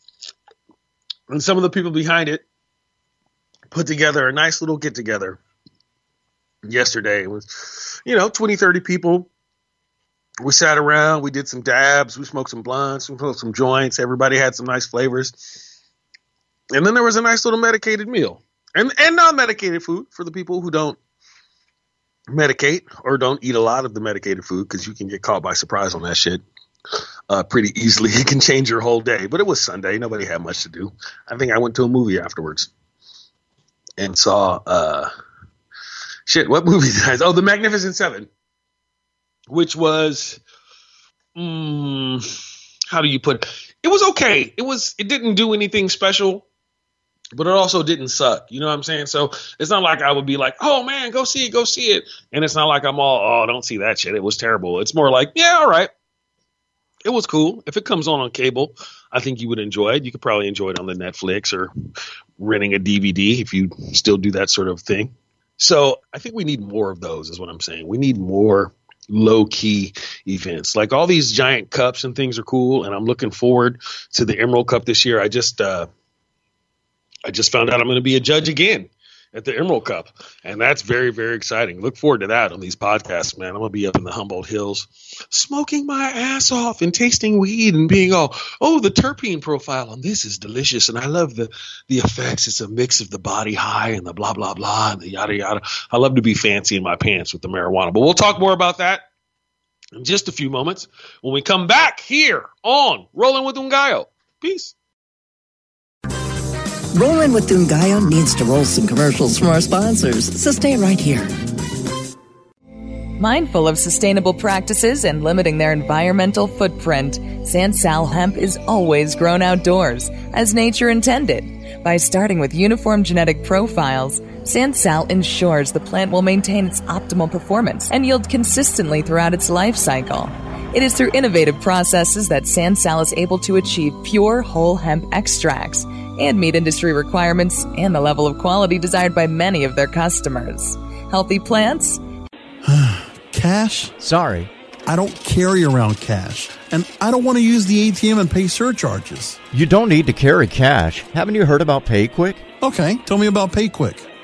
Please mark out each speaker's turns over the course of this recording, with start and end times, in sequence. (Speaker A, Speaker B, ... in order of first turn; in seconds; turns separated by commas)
Speaker A: 1.3-2.5, Speaker A: 3.7-5.4, Speaker A: 6.7-9.3, Speaker A: 10.4-15.6, Speaker A: 16.7-21.0, Speaker A: 22.3-26.4, Speaker A: 27.3-32.7, Speaker A: 34.0-35.1, Speaker A: 36.3-38.3, Speaker A: 39.5-40.4, Speaker A: 41.4-42.2, Speaker A: 42.9-46.5, Speaker A: 47.4-55.9, Speaker A: 57.0-61.7, Speaker A: 62.4-75.9, Speaker A: 77.3-99.0, Speaker A: 100.0-104.7, Speaker B: 106.9-111.3, Speaker C: 113.2-142.0, Speaker D: 142.6-143.9, Speaker E: 144.0-144.5, Speaker D: 144.9-149.4, Speaker E: 149.5-152.4, Speaker D: 152.6-154.1